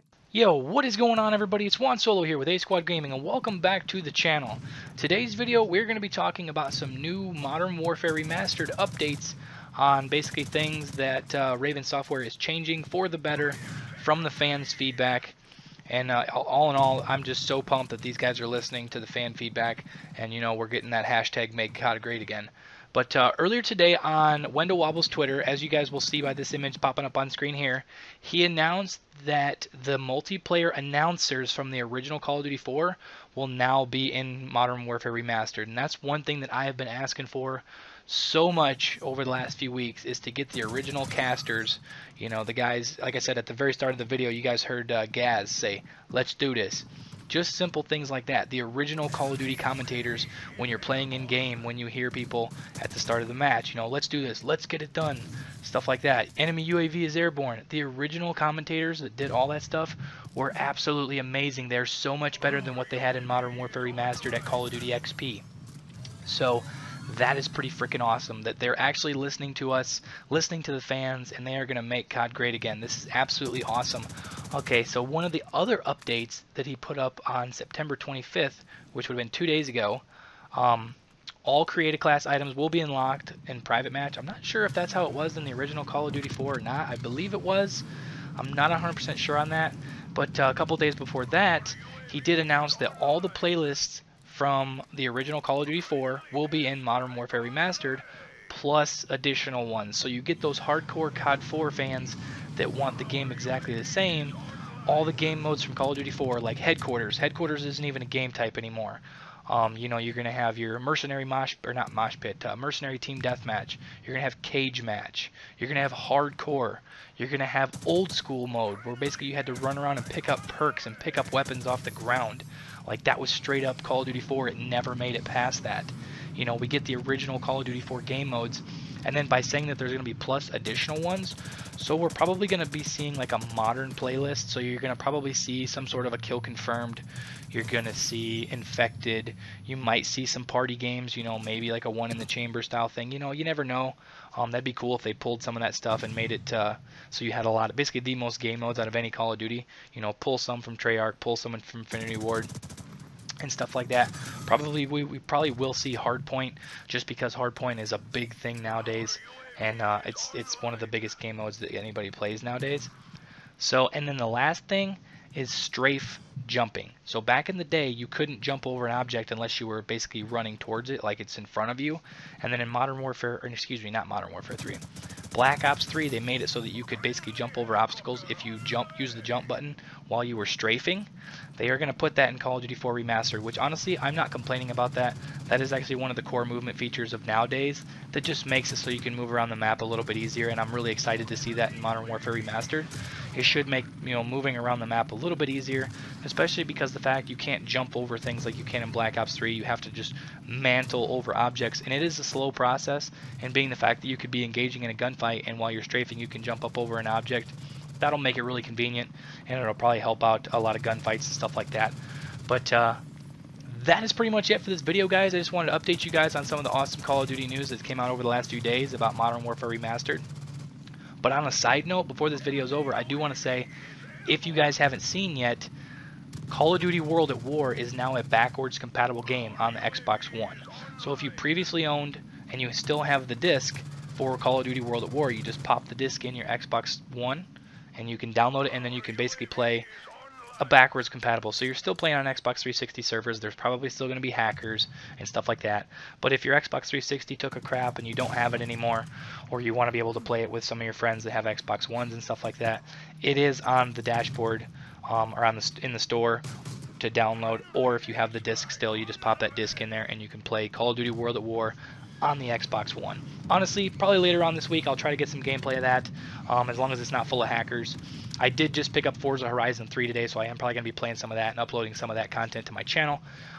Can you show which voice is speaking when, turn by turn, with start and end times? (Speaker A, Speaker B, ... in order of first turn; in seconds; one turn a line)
Speaker A: 0.3-15.3
Speaker A: 15.9-65.4
Speaker A: 66.2-87.8
Speaker A: 88.4-152.5
Speaker A: 153.4-162.9
Speaker A: 163.6-212.0
Speaker A: 212.5-213.0
Speaker A: 213.7-220.2
Speaker A: 221.2-223.7
Speaker A: 224.2-225.7
Speaker A: 226.5-239.9
Speaker A: 240.6-256.4
Speaker A: 257.0-273.2